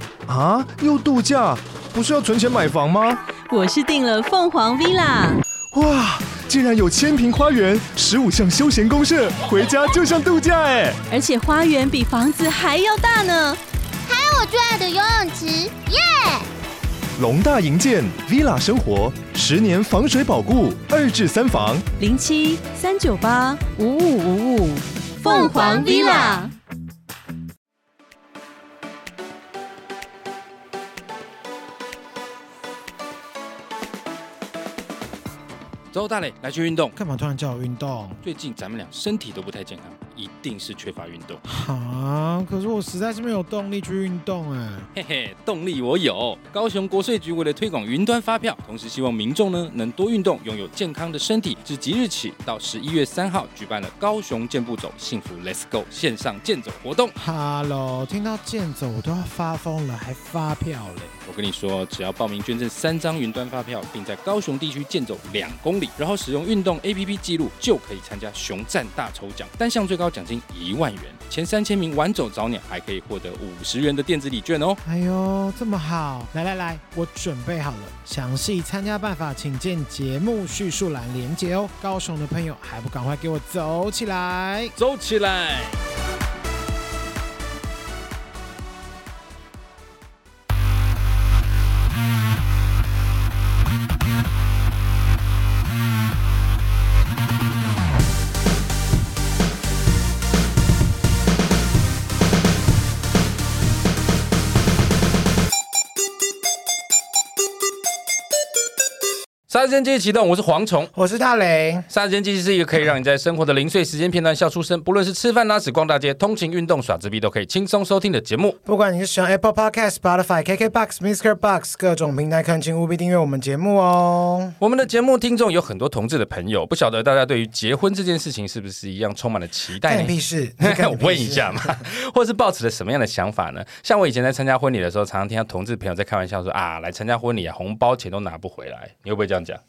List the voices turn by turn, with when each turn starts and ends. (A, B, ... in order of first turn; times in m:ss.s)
0:00.3-0:03.2 A
0:03.4-0:05.4 B
0:05.7-0:11.0 A
0:11.1-0:13.6 B
0:14.1-0:16.4 C
0:17.2-0:21.8 A
0:22.0-0:26.5 B
0:25.3-0:26.3 C
0:35.9-0:37.0 D
0:37.0-0:38.2 E
0:38.2-0:41.4 D
0:41.4-0:44.9 E
0:44.9-0:57.1 D
0:57.2-1:01.1 E
1:01.2-1:14.8 D
1:14.8-1:24.7 E
1:24.8-1:25.8 D
1:49.5-1:50.9 D
1:50.9-1:51.9 E
1:51.9-1:58.6 D
1:58.6-2:04.5 E
2:04.6-2:19.6 D
2:09.8-2:11.8 E